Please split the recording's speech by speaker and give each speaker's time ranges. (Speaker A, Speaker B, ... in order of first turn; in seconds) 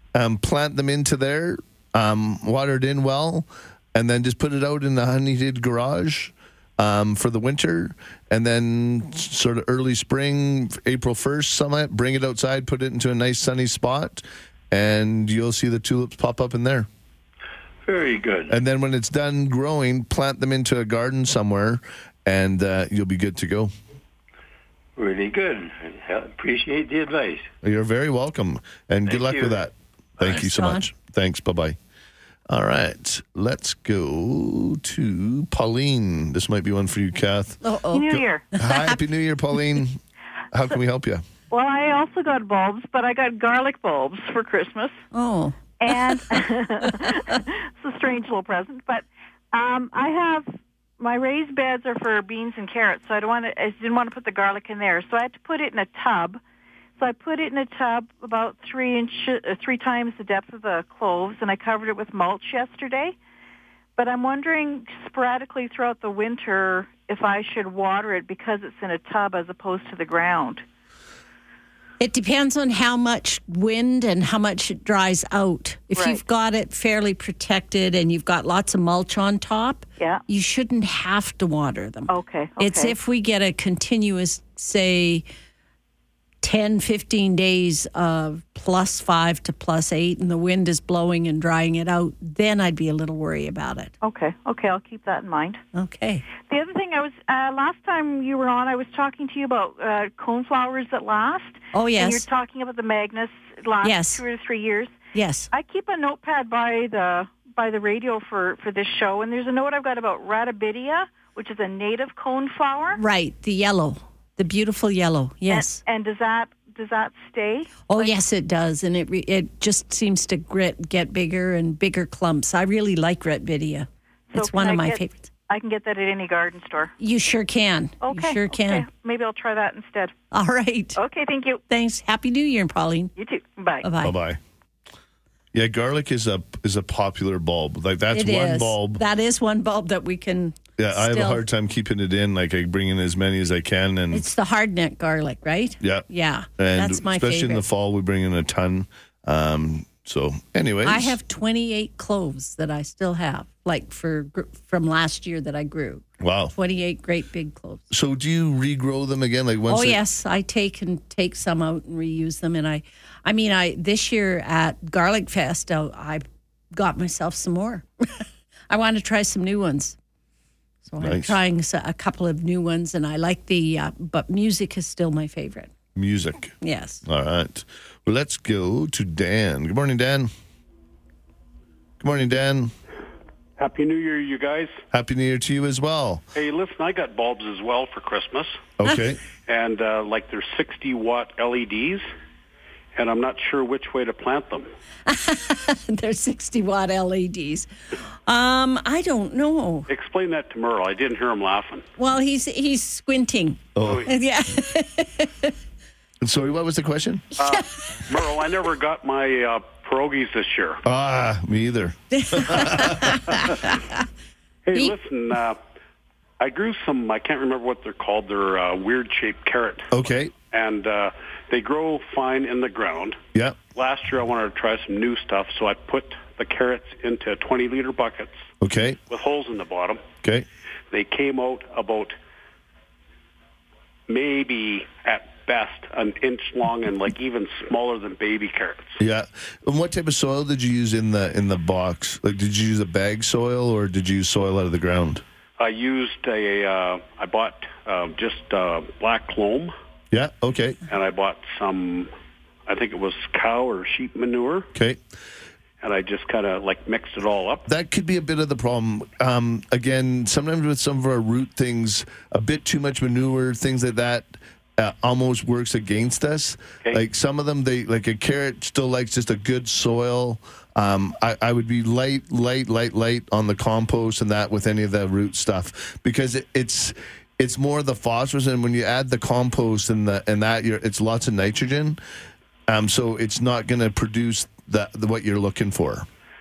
Speaker A: 0.1-16.9, 18.5-23.7, 27.6-31.8, 32.5-40.0, 40.5-41.2, 134.0-134.4, 135.5-139.0, 140.8-144.2, 145.8-146.1, 146.6-151.2, 156.2-156.5, 157.9-160.0, 171.0-171.4, 176.0-180.3, 182.0-182.7, 184.9-186.2, 188.8-189.2, 203.8-204.1, 206.2-207.3, 210.8-213.5, 219.9-220.3, 228.6-229.0, 239.0-245.2, 250.1-250.8, 257.7-282.0, 282.7-286.1
Speaker B: 17.8-18.6, 25.0-27.5, 29.1-29.7
Speaker C: 30.2-30.8, 37.6-39.0, 45.1-46.4, 72.0-85.2, 86.4-93.9, 95.8-96.2, 101.7-102.2, 103.8-104.2, 105.1-105.5, 113.0-115.8, 117.9-125.3, 127.0-128.9, 130.3-131.0, 131.7-133.1, 133.8-134.2, 138.1-141.4, 144.1-147.6, 150.8-157.8, 159.7-170.0, 170.8-175.7, 176.6-177.0, 195.1-197.7, 198.3-199.9, 202.0-205.5, 212.1-213.8
Speaker D: 37.9-38.5, 41.5-45.0, 45.8-56.4, 57.0-63.1, 64.0-70.6, 75.9-76.2, 82.1-83.0, 94.0-95.6, 96.4-105.0, 105.5-113.0, 115.5-118.1, 124.3-126.9, 128.0-130.1, 131.0-131.6, 133.2-133.9
Speaker E: 183.6-184.8, 186.3-188.6, 189.4-192.1, 192.9-194.7, 199.9-201.9, 203.8-204.1, 207.4-210.8, 214.7-215.6, 216.4-219.9, 220.5-223.2, 223.7-228.5, 229.1-230.0, 230.9-232.2, 234.1-239.0, 245.6-249.7, 250.9-252.1, 252.7-254.7, 255.8-257.6